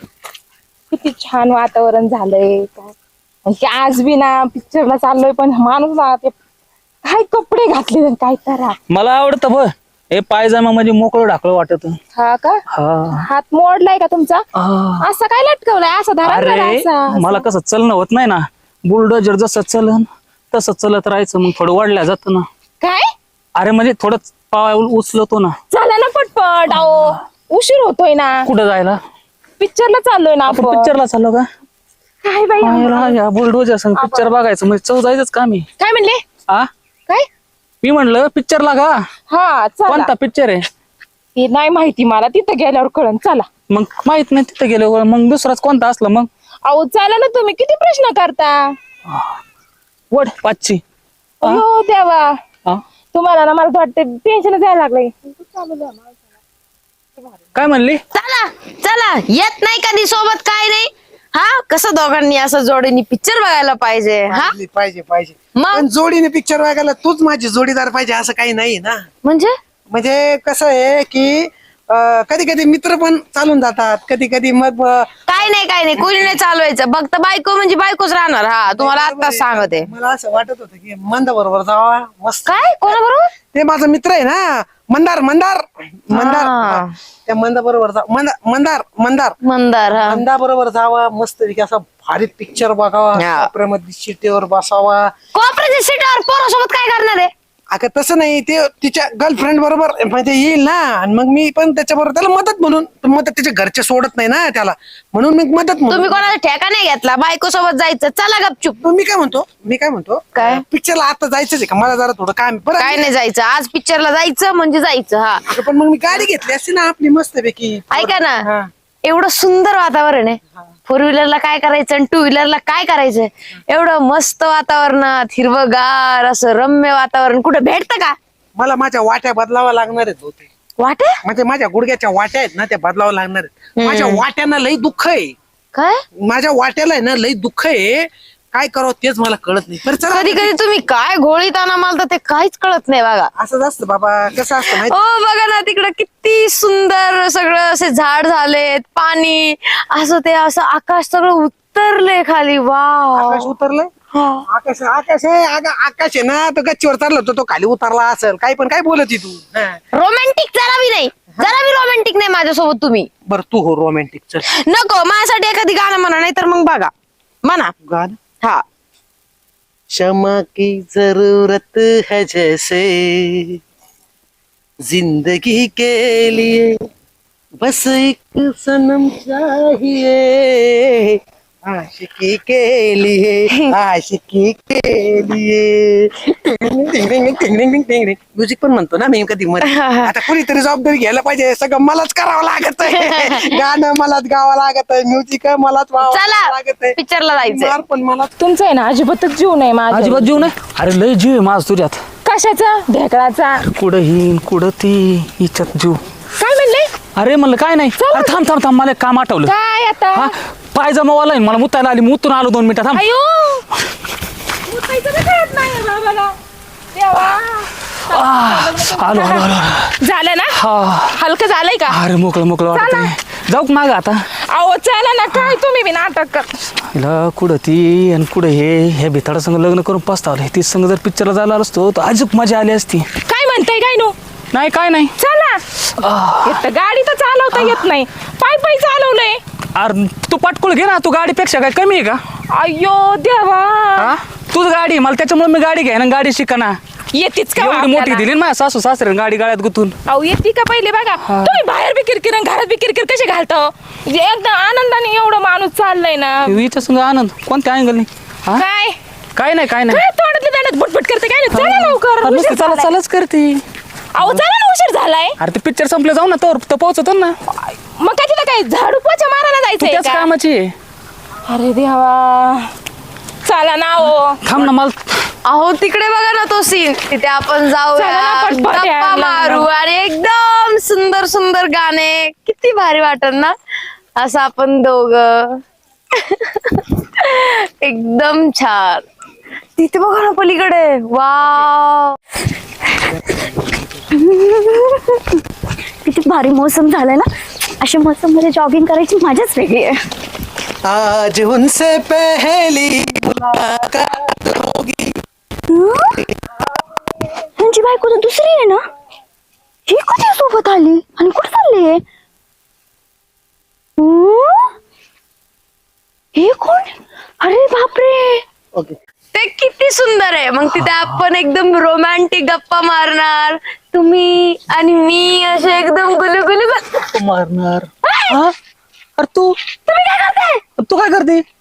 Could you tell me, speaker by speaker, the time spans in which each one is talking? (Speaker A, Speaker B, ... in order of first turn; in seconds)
Speaker A: 0.9-6.3, 7.0-8.8, 12.2-12.6, 13.1-14.4, 15.0-17.4, 22.8-23.1, 25.7-28.5, 29.6-30.9, 32.2-33.2, 34.0-34.3, 35.8-36.2, 39.3-40.1, 41.4-43.5, 46.7-48.7, 51.4-52.3, 53.1-56.1, 198.4-200.5, 202.2-203.6, 206.4-206.9, 208.0-208.4, 209.4-210.3, 212.9-213.6, 214.7-216.3, 216.9-219.5, 220.0-222.0, 222.7-223.1, 224.5-226.5, 233.2-234.2, 235.2-235.6, 236.4-239.4, 242.5-244.1, 247.1-248.3, 250.1-256.6, 258.5-259.0, 259.8-262.9, 264.1-265.4, 267.7-270.3, 271.5-272.7, 273.4-274.4, 277.9-279.7
Speaker B: 8.9-12.0, 12.7-13.2, 14.6-15.0, 16.2-22.5, 23.6-25.6, 28.4-29.0, 30.5-31.5, 32.6-35.7, 37.8-39.0, 39.9-40.7, 43.7-46.3, 49.1-49.3, 50.1-50.8, 57.5-58.0, 199.9-202.0, 203.6-206.0, 207.1-209.5, 210.1-213.0, 218.1-219.9, 220.5-221.2, 221.9-224.2, 226.8-233.1, 234.5-235.1, 235.9-236.6, 237.5-237.8, 239.8-242.2, 244.0-246.8, 247.6-250.0, 251.2-251.6, 256.4-258.6, 259.3-260.0, 261.5-263.6, 265.4-267.4, 269.8-270.7, 274.4-275.1, 320.8-321.2, 327.1-328.5, 329.2-329.5, 330.8-331.4
Speaker C: 58.1-64.5, 65.6-65.9, 69.2-69.5, 75.3-79.9, 82.5-83.3, 86.1-86.9, 89.4-90.2, 93.2-93.5, 95.3-97.3, 105.9-108.8, 110.4-110.6, 112.8-115.6, 117.9-118.4, 119.0-128.2, 130.8-131.2, 133.8-134.2, 135.7-136.0, 140.1-143.3, 144.7-153.5, 154.1-154.4, 159.9-163.1, 164.5-166.9, 167.4-167.7, 189.7-190.1, 192.9-193.6, 196.0-197.7, 275.4-283.5, 284.2-285.6, 286.2-289.0, 289.8-292.2, 319.3-327.1, 328.0-328.4, 329.9-330.6
Speaker D: 64.3-69.1, 69.9-75.5, 78.7-83.0, 83.5-89.4, 89.9-95.1, 97.7-106.3, 108.8-113.1, 115.5-118.7, 128.6-130.5, 131.2-135.3, 136.2-140.5, 143.3-144.9, 153.2-153.9, 154.4-159.8, 163.2-164.4, 167.8-168.2, 169.9-173.6, 174.8-176.7, 177.6-198.3, 300.8-305.2
Speaker E: 294.2-295.2, 296.0-297.3, 297.8-300.0, 305.7-306.2, 307.6-308.8, 309.9-312.0, 314.0-314.7, 316.3-318.4